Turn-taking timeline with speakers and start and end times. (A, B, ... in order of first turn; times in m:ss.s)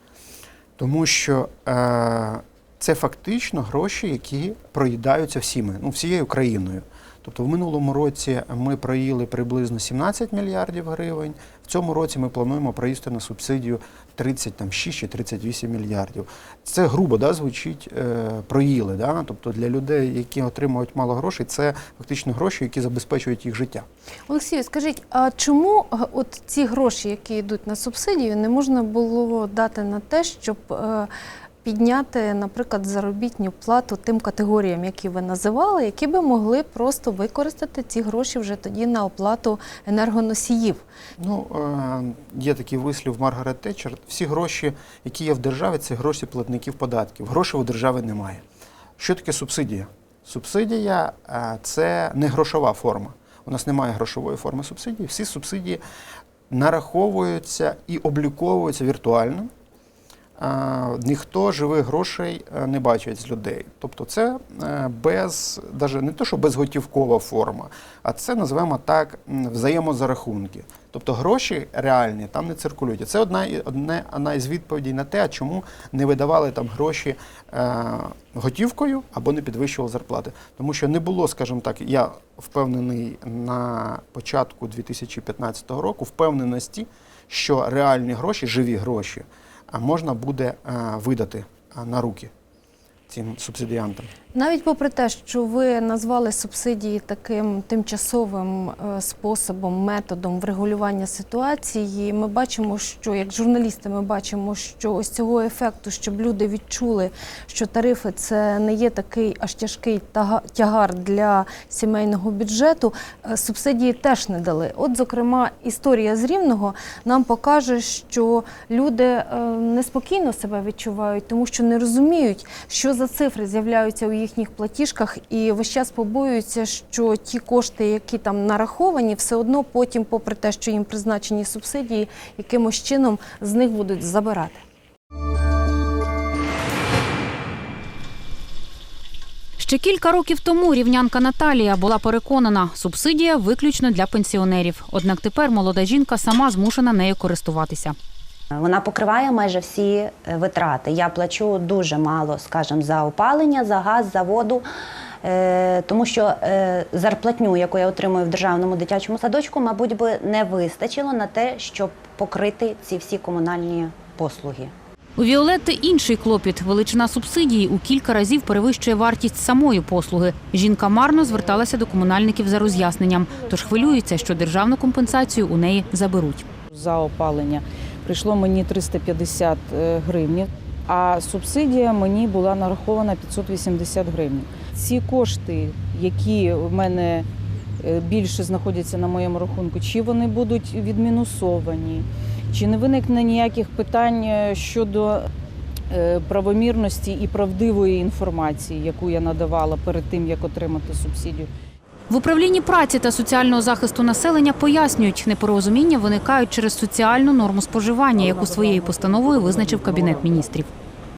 0:00.8-0:23.9 A
0:24.3-0:31.1 B
0:31.6-0:40.8 B
0:41.2-0:48.4 A
0:49.0-0:55.8 A
0:56.5-0:59.5 A
1:00.4-1:32.3 A
1:33.1-1:34.1 A
1:34.3-2:14.6 B
2:19.6-2:28.0 C
2:28.5-2:34.7 D
2:35.2-2:44.7 D
2:45.2-2:56.5 C
2:56.7-3:07.3 E
3:07.8-3:15.3 E
3:15.9-3:21.5 E
3:22.1-3:30.7 C